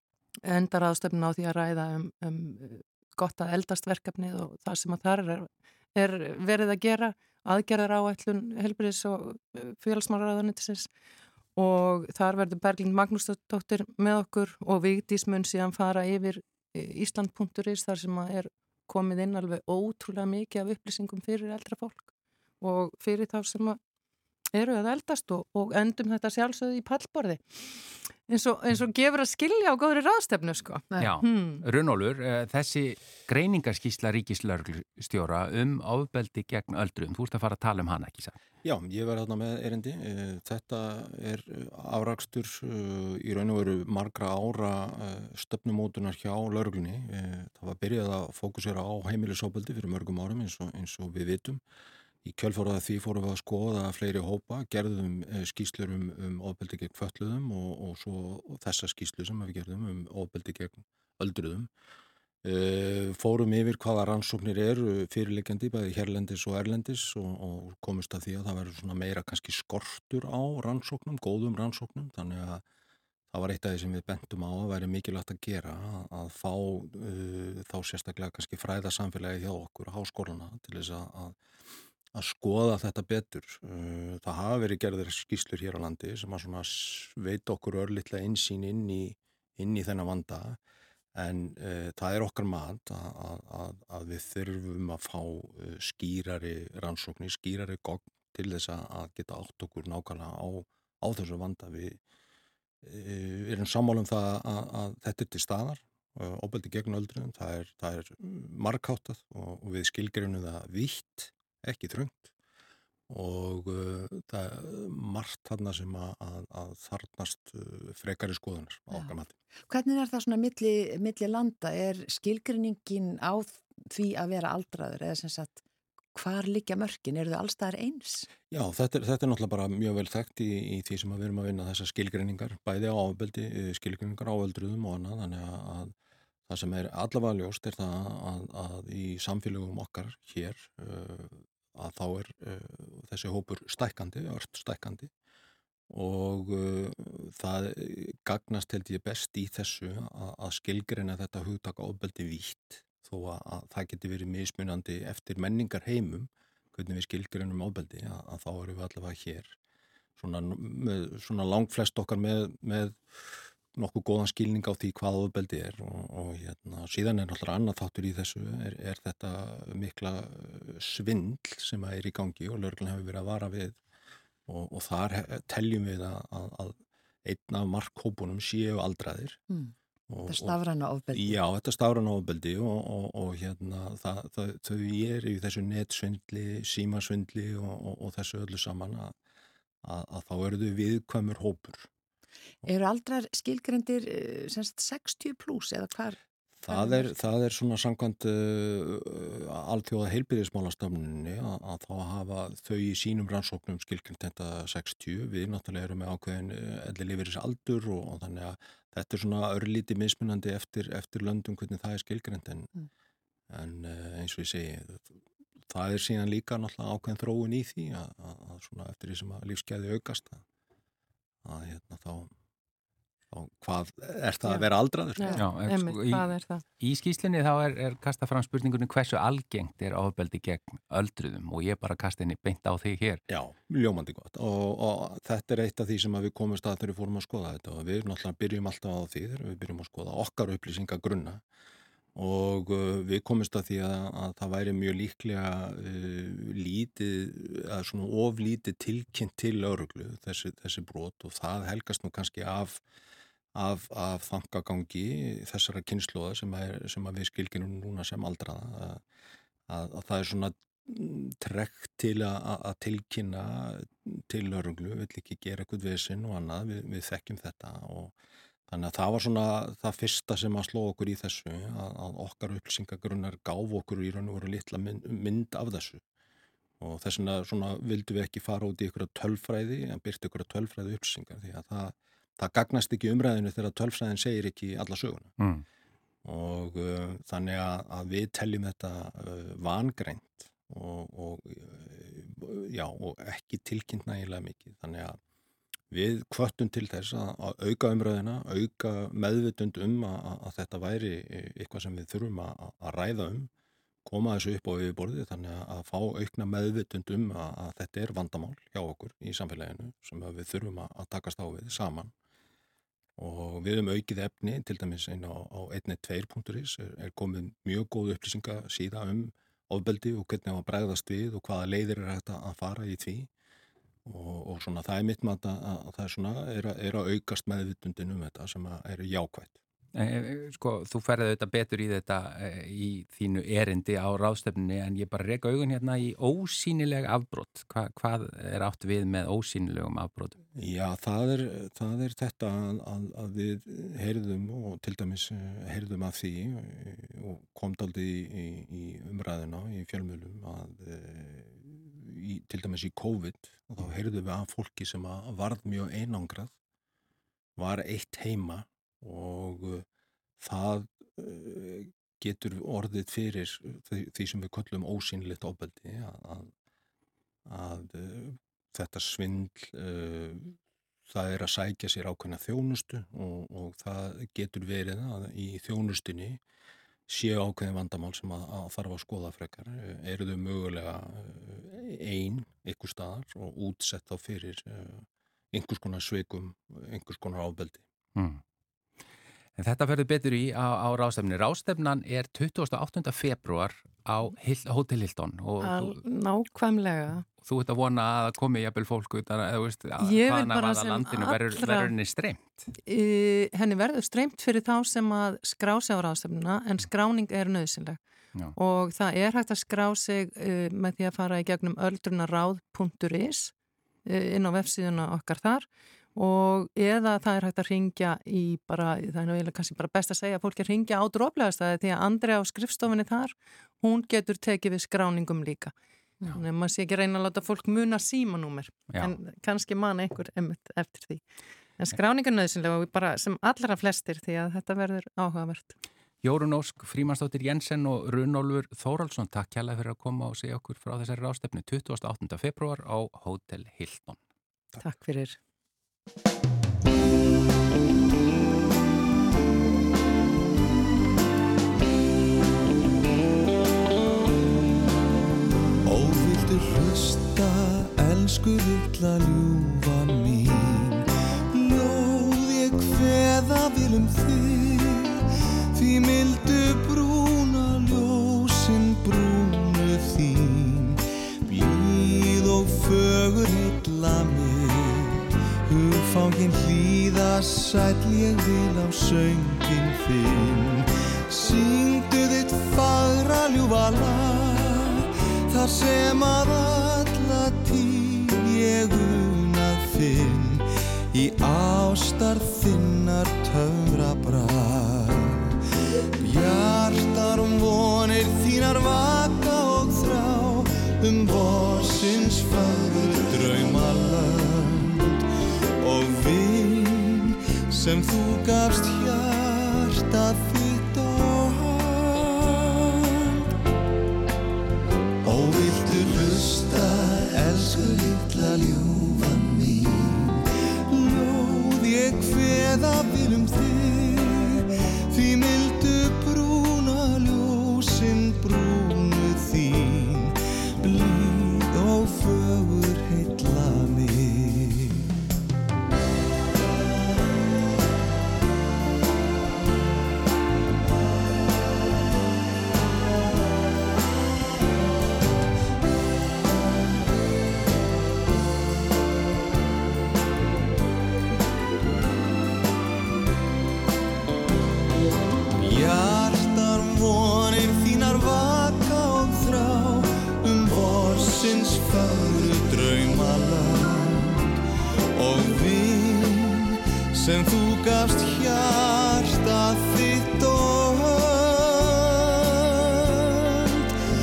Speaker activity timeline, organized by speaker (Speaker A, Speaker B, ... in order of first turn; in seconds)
Speaker A: 0.4-10.9, 11.6-22.1, 22.6-23.8, 24.5-31.6, 225.2-226.6, 395.6-397.3, 400.0-401.9, 402.9-408.0, 408.6-413.5, 414.1-425.7, 426.3-431.2, 431.8-435.7, 444.8-445.4
Speaker B: 31.0-38.4, 225.4-233.2, 285.4-285.6, 329.9-340.4, 388.2-388.4, 389.6-396.0, 397.4-402.7, 428.9-429.1, 436.2-444.2
Speaker C: 38.6-51.6, 52.2-61.7, 62.4-72.6, 73.3-81.4, 82.2-90.6, 91.2-102.0, 102.8-112.3, 113.1-119.3, 128.5-135.9, 136.5-145.1, 145.9-159.6, 160.2-173.8, 174.5-179.4, 180.1-180.6, 181.1-189.2, 189.8-191.9, 196.6-212.7, 213.5-220.4, 221.4-222.3, 223.3-225.4, 233.3-241.4, 242.2-252.8, 253.6-259.0, 259.7-268.1, 268.7-276.0, 276.8-285.3, 286.2-295.2, 295.9-303.5, 304.1-312.1, 313.2-323.3, 324.1-329.6, 340.6-356.5, 357.6-359.9, 360.4-366.5, 367.5-370.6, 371.1-376.4, 377.1-387.9
Speaker D: 119.7-125.6, 126.2-128.3, 180.3-181.4, 192.6-196.2, 196.7-197.1
Speaker E: 455.9-465.2, 465.7-495.6, 496.2-505.2, 505.8-513.5, 515.2-535.1, 555.6-564.5, 565.1-573.9